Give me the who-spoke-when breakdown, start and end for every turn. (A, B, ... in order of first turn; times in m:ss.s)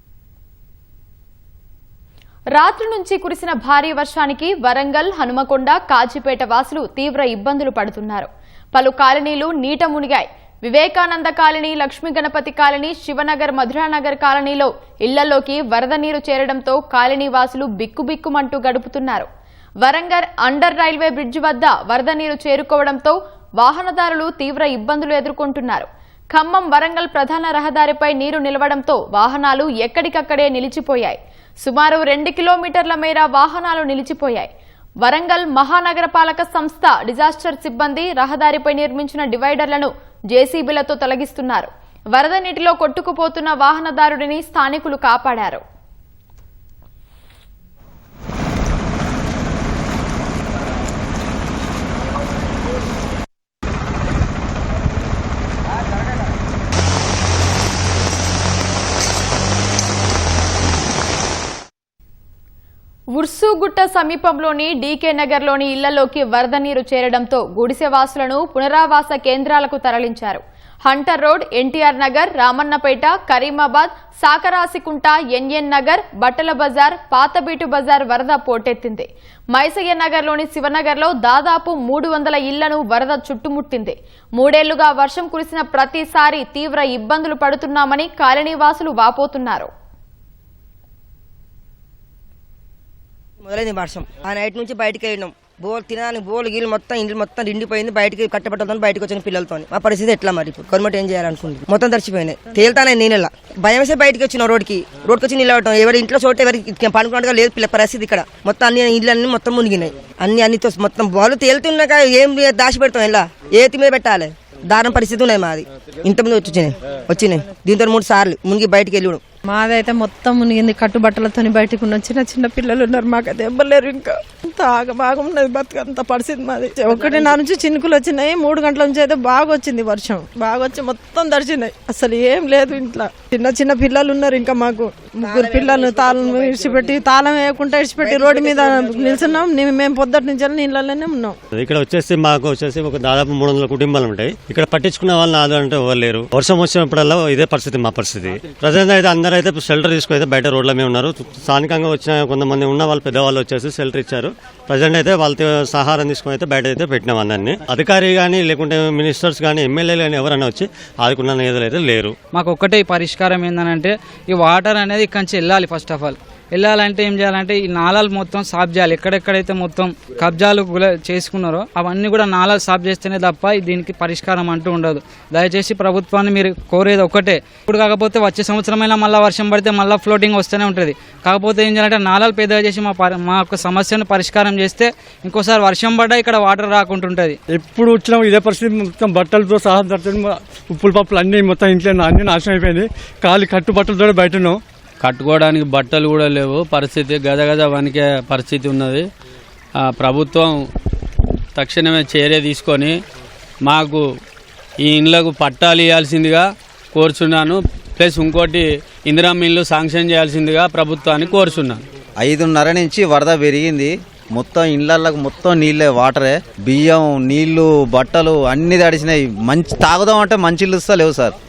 0:02.6-0:19.3 A
0:19.8-0:34.5 A
0:35.0-0:45.6 A
1:03.2-1:29.7 A
1:33.4-1:59.2 B
1:59.5-2:21.3 C
2:15.2-2:17.0 B
2:18.0-2:19.4 B
2:21.5-2:42.1 D
2:42.3-3:07.4 E
3:07.5-3:14.6 F
3:15.0-3:19.0 G
3:19.8-3:20.6 G
3:21.5-3:23.0 G
3:23.6-3:24.0 G
3:24.8-3:31.8 G
3:32.2-3:41.3 H